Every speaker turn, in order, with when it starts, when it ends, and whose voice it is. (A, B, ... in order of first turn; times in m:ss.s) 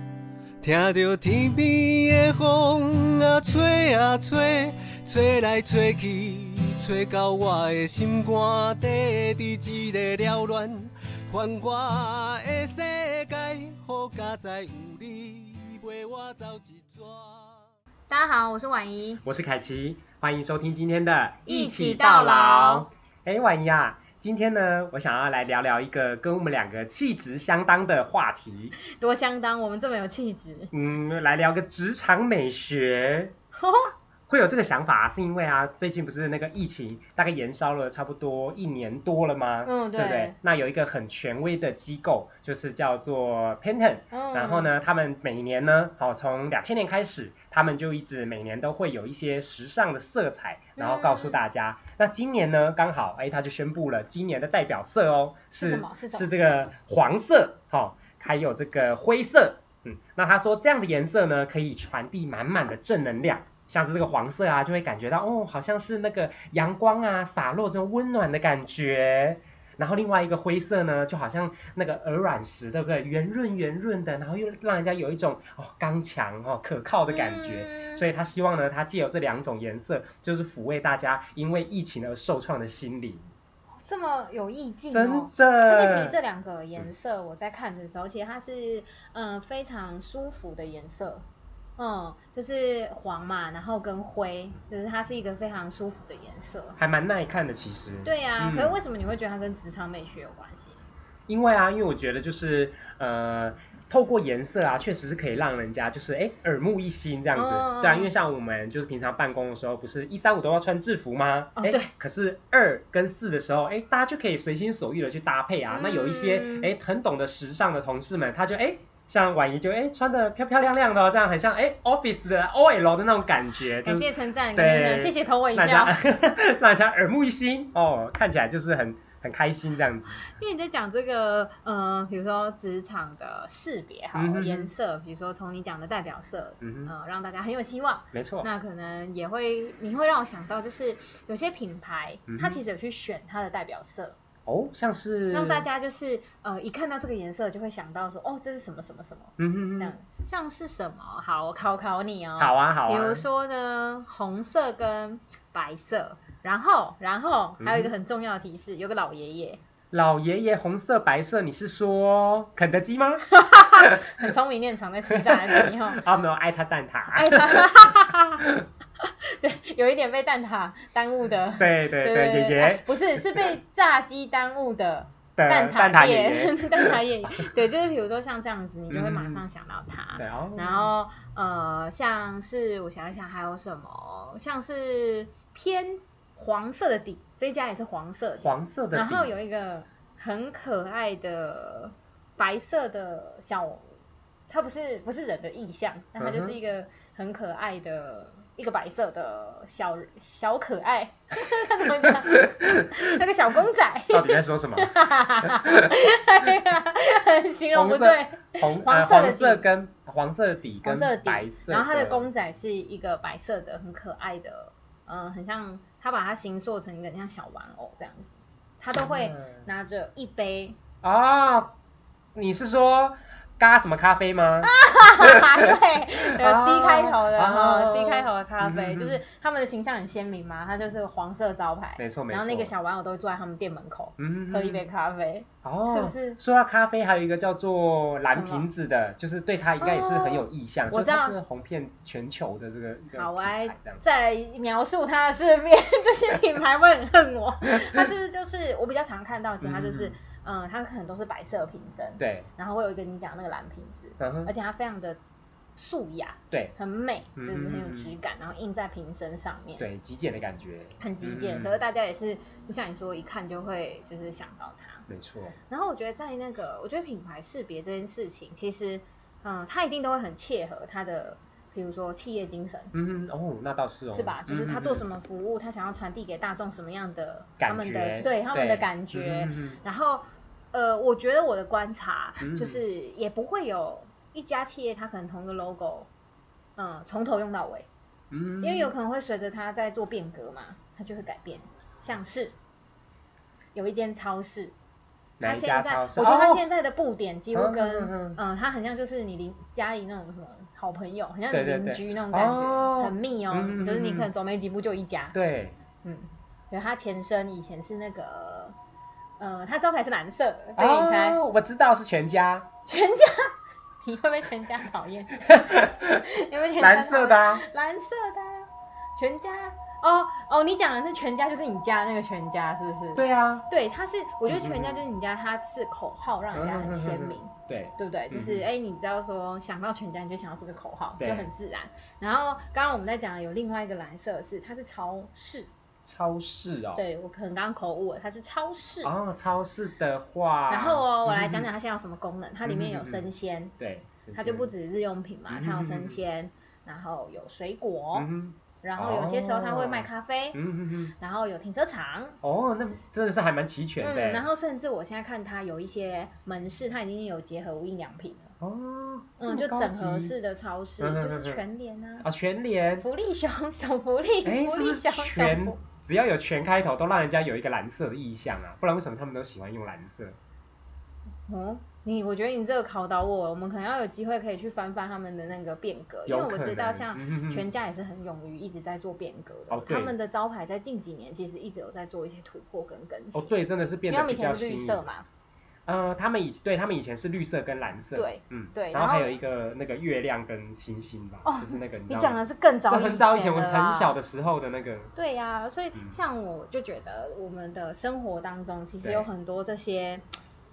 0:00.6-0:17.6 A
0:18.1-0:19.2 B
0:19.2-0:28.8 C
0:21.5-0:22.9 B
0:28.8-0:30.7 B
0:30.7-0:33.3 C
0:33.5-0:33.9 B
0:34.3-1:23.3 C
0:39.6-0:40.4 B
0:44.1-0:44.7 B
0:50.8-0:51.4 B
0:55.6-0:56.3 B
1:17.1-1:18.0 B
1:23.8-1:31.2 B
1:24.9-1:26.2 C
1:31.8-1:36.8 B
1:36.8-1:38.8 C
1:38.0-1:40.8 B
1:41.3-2:10.3 C
1:47.3-1:48.1 B
1:51.6-1:51.9 B
1:55.7-1:56.7 B
2:03.8-2:06.0 B
2:10.2-2:24.2 B
2:14.2-2:14.7 C
2:16.6-2:16.9 C
2:18.1-2:18.5 C
2:22.3-2:22.6 C
2:24.5-2:25.7 C
2:25.3-2:39.6 B
2:29.4-2:29.9 C
2:32.4-2:33.2 C
2:37.6-2:37.9 C
2:39.9-2:44.0 C
2:43.3-2:46.0 B
2:45.1-2:47.8 C
2:47.1-2:48.4 B
2:48.4-2:48.7 C
2:49.0-3:13.9 B
2:51.6-2:53.4 C
2:55.4-2:57.0 C
2:58.9-2:59.4 C
3:00.2-3:00.9 C
3:08.4-3:09.3 C
3:14.5-3:29.6 B
3:16.2-3:16.6 C
3:22.0-3:23.1 C
3:24.1-3:25.9 C
3:27.8-3:32.3 C
3:30.8-3:40.8 B
3:38.9-3:39.7 C
3:41.0-3:41.7 C
3:42.4-3:49.2 C
3:44.6-3:56.4 B
3:52.0-3:52.7 C
3:54.2-3:54.9 C
3:55.6-4:04.0 C
3:58.3-3:58.7 B
3:59.8-4:01.4 B
4:03.2-4:15.2 B
4:09.6-4:10.2 C
4:12.2-4:12.5 C
4:14.2-4:14.5 C
4:15.8-4:19.8 B
4:17.4-4:18.1 C
4:19.8-4:21.8 C
4:21.0-4:25.1 B
4:25.1-4:25.6 C
4:25.7-4:32.9 B
4:32.9-4:35.1 C
4:34.1-4:46.1 B
4:37.6-4:39.8 C
4:42.4-4:42.8 C
4:46.8-4:47.9 B
4:48.3-4:48.9 C
4:48.6-4:52.5 B
4:53.8-4:54.7 B
4:55.4-4:56.6 C
4:55.4-5:05.4 B
4:57.5-4:58.4 C
5:01.5-5:04.3 C
5:05.3-5:05.8 C
5:06.0-5:08.8 B
5:09.4-5:11.4 B
5:10.8-5:12.7 C
5:12.9-5:35.7 B
5:15.5-5:17.6 C
5:23.2-5:23.7 C
5:24.5-5:25.0 C
5:26.5-5:28.6 C
5:31.2-5:31.5 C
5:36.0-5:37.0 C
5:36.9-5:39.1 B
5:39.0-5:41.7 C
5:40.7-5:43.7 B
5:42.6-5:43.3 C
5:43.8-5:44.7 C
5:44.4-5:48.3 B
5:45.5-5:46.2 C
5:48.2-5:51.1 C
5:48.8-5:50.6 B
5:51.2-5:52.4 B
5:52.4-5:54.5 C
5:54.0-5:58.5 B
5:58.6-6:00.3 C
5:59.4-6:02.3 B
6:01.0-6:01.6 C
6:02.2-6:03.0 C
6:03.0-6:05.8 B
6:04.4-6:10.4 C
6:11.5-6:23.6 B
6:16.3-6:17.7 C
6:19.7-6:20.1 C
6:23.3-6:25.0 C
6:24.1-6:25.3 B
6:25.9-6:35.1 C
6:28.2-6:29.4 B
6:31.4-6:34.2 B
6:35.2-6:40.2 B
6:39.0-6:39.3 C